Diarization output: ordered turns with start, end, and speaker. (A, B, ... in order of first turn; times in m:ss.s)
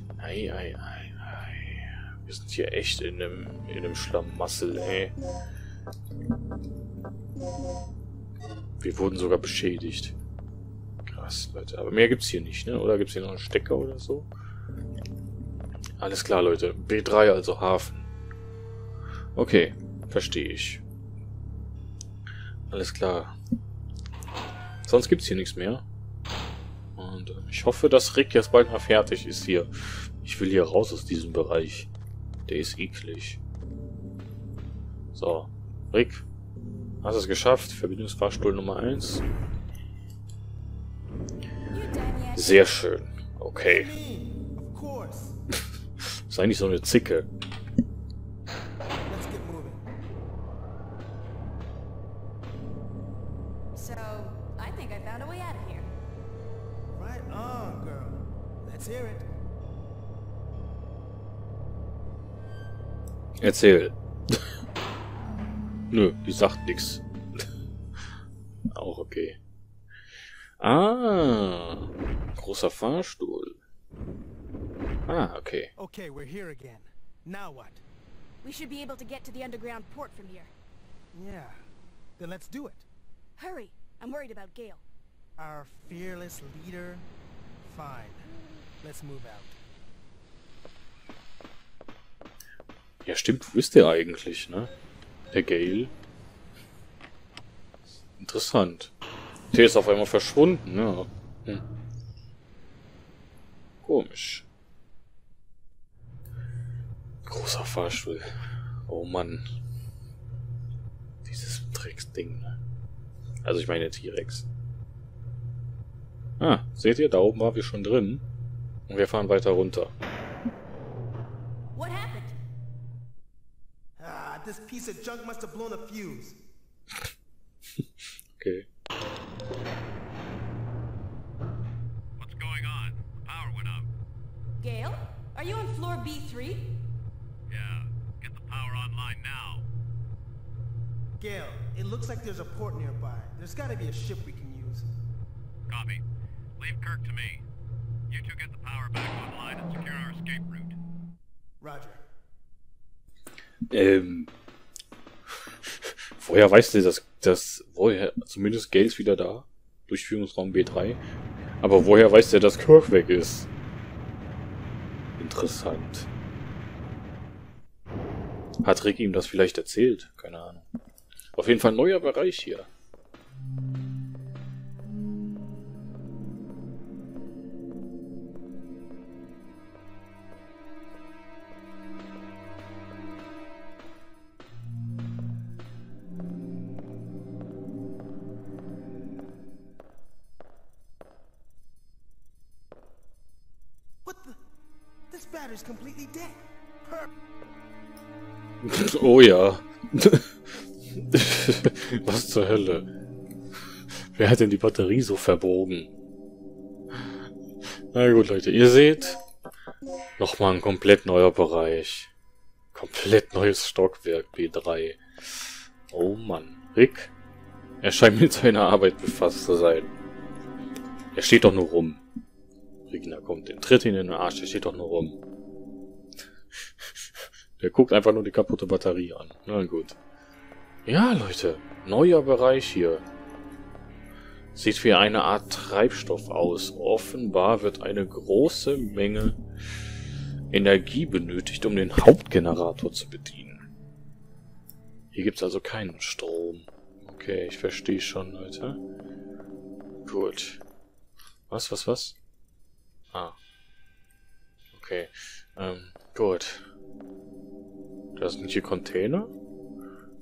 0:00.2-0:05.1 A
0:08.8-0:10.1 A
0:11.0-0:14.3 A
0:16.0-0:18.0 A
0:19.3-0:20.8 A
0:22.7-0:23.3 A
0:24.8-0:25.8 A
0:27.0-0:31.9 A
0:32.5-0:33.4 A
0:35.1-0:36.2 A
0:37.0-0:39.2 A
0:41.7-0:42.7 B
0:42.3-0:43.9 A
0:43.6-0:45.4 C
0:46.3-0:47.3 A
0:49.1-0:49.8 C
0:53.7-0:55.9 B
0:56.9-0:59.3 C
1:03.4-1:04.4 A
1:05.9-1:07.0 A
1:08.7-1:09.4 A
1:10.6-1:13.6 A
1:15.1-1:15.7 A
1:15.8-1:17.8 C
1:18.4-1:20.5 B
1:21.1-1:21.6 C
1:22.2-1:22.8 C
1:23.4-1:24.8 B
1:25.4-1:27.0 C
1:27.6-1:28.3 C
1:28.8-1:29.6 C
1:33.0-1:34.7 A
1:35.3-1:35.9 A
1:38.2-1:38.9 A
1:39.5-1:41.6 A
1:43.8-1:44.4 A
1:47.2-1:48.2 A
1:48.9-1:49.4 A
1:51.2-1:52.6 A
1:53.4-1:54.4 A
1:56.4-1:58.2 A
1:58.9-1:59.9 A
2:01.7-2:02.3 B
2:04.0-2:06.4 C
2:08.4-2:08.7 A
2:12.2-2:13.9 D
2:14.6-2:16.6 B
2:17.5-2:19.7 D
2:21.2-2:24.9 C
2:25.7-2:26.0 D
2:26.6-2:27.4 D
2:28.1-2:30.8 D
2:31.6-2:32.0 C
2:33.7-2:34.3 A
2:35.6-2:41.0 A
2:41.6-2:43.5 A
2:45.2-2:46.1 A
2:48.6-2:50.6 A
2:51.4-2:52.7 A
3:14.0-3:14.4 C
3:15.1-3:17.1 C
3:18.6-3:22.9 A
3:24.1-3:25.9 A
3:27.9-3:29.2 A
3:30.2-3:32.1 A
3:32.7-3:37.1 A
3:37.8-3:39.9 A
3:41.1-3:42.0 A
3:42.9-3:45.2 A
3:46.6-3:50.0 A
3:50.8-3:53.0 A
3:54.5-3:59.4 A
4:00.5-4:03.6 A
4:05.1-4:08.8 A
4:10.0-4:10.6 A
4:11.5-4:12.2 A
4:14.7-4:16.6 A
4:18.2-4:19.3 A